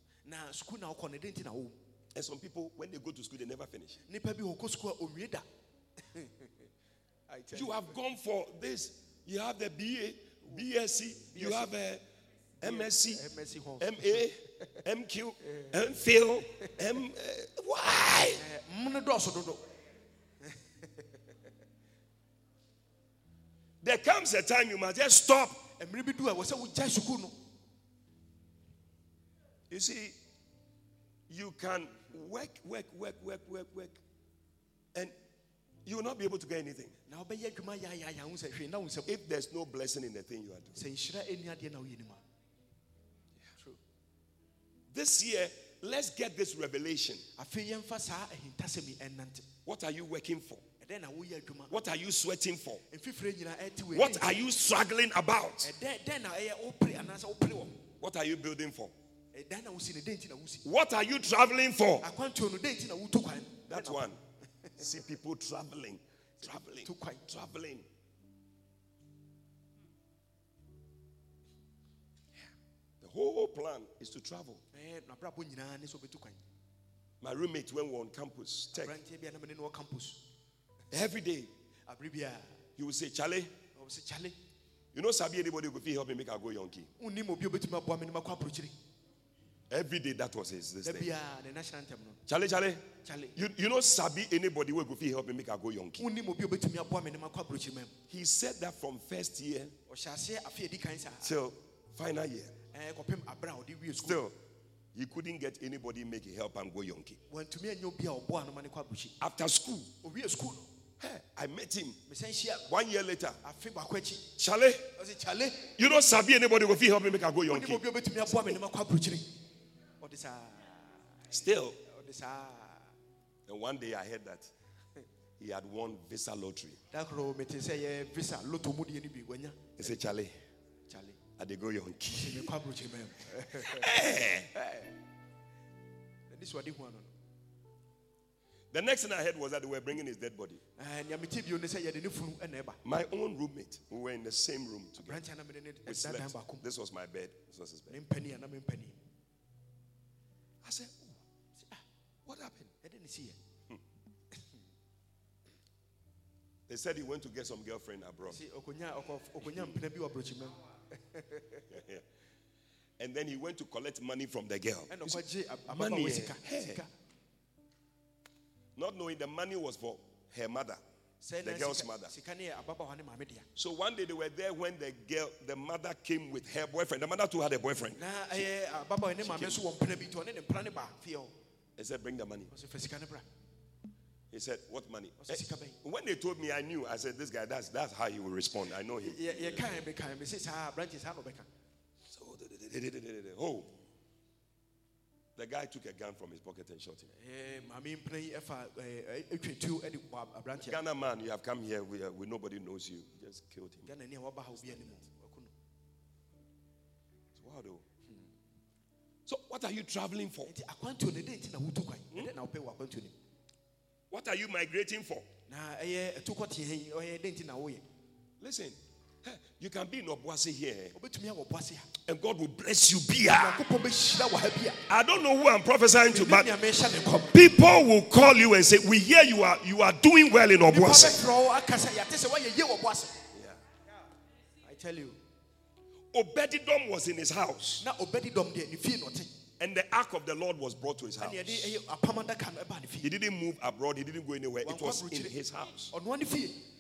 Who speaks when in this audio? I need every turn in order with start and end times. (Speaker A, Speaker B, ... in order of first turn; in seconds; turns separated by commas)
Speaker A: 0.2-1.8, Speaker B: 2.1-4.0, Speaker A: 4.0-5.4, Speaker A: 6.1-6.5, Speaker A: 7.3-7.8, Speaker B: 7.5-12.0, Speaker A: 11.3-11.7, Speaker B: 12.6-13.2, Speaker A: 12.6-14.2, Speaker B: 13.8-18.4, Speaker A: 18.4-19.6, Speaker B: 23.8-25.6, Speaker A: 25.8-27.3, Speaker B: 29.7-30.1, Speaker B: 31.3-34.0, Speaker B: 35.8-36.9, Speaker A: 37.1-39.1, Speaker B: 39.0-40.8, Speaker A: 40.7-42.2, Speaker B: 44.9-47.2, Speaker A: 47.4-49.5, Speaker B: 49.6-50.6, Speaker A: 50.8-51.7, Speaker B: 51.7-52.8, Speaker A: 52.9-54.4, Speaker B: 53.9-55.7, Speaker A: 55.6-57.8, Speaker B: 58.0-58.9, Speaker A: 59.3-60.6, Speaker B: 60.6-62.0, Speaker A: 62.0-64.0, Speaker B: 63.7-64.2, Speaker B: 64.8-67.8, Speaker A: 66.8-67.2, Speaker B: 73.0-74.6, Speaker A: 74.7-76.4, Speaker B: 77.2-79.0, Speaker A: 78.7-80.2, Speaker B: 80.9-81.5, Speaker A: 81.9-82.5, Speaker B: 82.8-83.5, Speaker A: 83.8-84.3, Speaker B: 84.9-86.9, Speaker A: 87.0-88.7, Speaker B: 89.7-91.1, Speaker A: 90.8-92.2, Speaker B: 92.3-92.8, Speaker A: 93.0-93.3, Speaker B: 93.3-96.0, Speaker A: 96.0-97.9, Speaker B: 98.1-99.7, Speaker A: 99.9-101.3, Speaker B: 101.2-102.5, Speaker A: 102.7-104.2, Speaker B: 104.0-104.3, Speaker B: 104.9-107.2, Speaker A: 107.3-109.2, Speaker B: 109.2-109.9, Speaker A: 110.0-110.7, Speaker B: 111.0-112.0, Speaker A: 112.1-112.7, Speaker B: 112.7-113.4, Speaker A: 113.4-114.2, Speaker B: 114.4-114.8, Speaker A: 115.0-115.7, Speaker B: 115.8-117.8, Speaker A: 117.5-119.3, Speaker A: 120.0-121.0, Speaker B: 121.3-121.8, Speaker A: 121.8-122.9, Speaker B: 123.5-124.5, Speaker B: 125.4-126.8, Speaker A: 126.9-129.8, Speaker B: 129.8-130.3, Speaker A: 130.9-131.2, Speaker B: 131.4-132.5, Speaker A: 132.1-133.9, Speaker B: 133.5-134.5, Speaker A: 134.6-134.8, Speaker A: 136.3-137.1, Speaker B: 138.7-140.6, Speaker A: 140.8-142.8, Speaker B: 142.8-145.2, Speaker A: 145.0-146.6, Speaker B: 145.8-147.9, Speaker A: 147.9-149.0, Speaker B: 150.6-151.2, Speaker A: 151.6-151.8, Speaker B: 152.2-152.7, Speaker A: 152.8-153.4, Speaker B: 156.7-158.4, Speaker A: 158.3-160.6, Speaker B: 159.4-159.7, Speaker A: 161.1-161.6, Speaker B: 161.7-162.0, Speaker B: 163.0-166.8, Speaker A: 164.9-166.9, Speaker B: 168.8-170.8, Speaker A: 171.2-173.4, Speaker B: 171.4-172.1, Speaker B: 173.6-178.4, Speaker A: 177.9-181.3, Speaker B: 179.2-179.6, Speaker B: 181.8-182.5, Speaker A: 182.5-183.2, Speaker B: 184.3-189.7, Speaker A: 185.2-185.8, Speaker A: 189.0-191.5, Speaker B: 192.1-193.7, Speaker B: 195.3-197.1, Speaker A: 197.2-200.8, Speaker B: 200.6-203.9, Speaker A: 203.8-205.5, Speaker B: 207.3-207.8, Speaker B: 209.2-210.5, Speaker A: 210.4-213.1, Speaker B: 214.1-215.2, Speaker A: 215.5-217.8, Speaker B: 218.4-220.9, Speaker A: 220.9-221.9, Speaker B: 222.1-223.6, Speaker A: 223.3-224.8, Speaker B: 224.9-226.5, Speaker A: 226.1-227.3, Speaker B: 227.3-231.2, Speaker A: 230.7-233.2, Speaker B: 233.3-233.6, Speaker A: 234.6-235.2, Speaker B: 236.1-237.8, Speaker A: 237.8-239.3, Speaker B: 239.6-241.7, Speaker A: 241.2-243.1, Speaker B: 243.0-245.9, Speaker A: 244.6-245.3, Speaker A: 245.9-246.6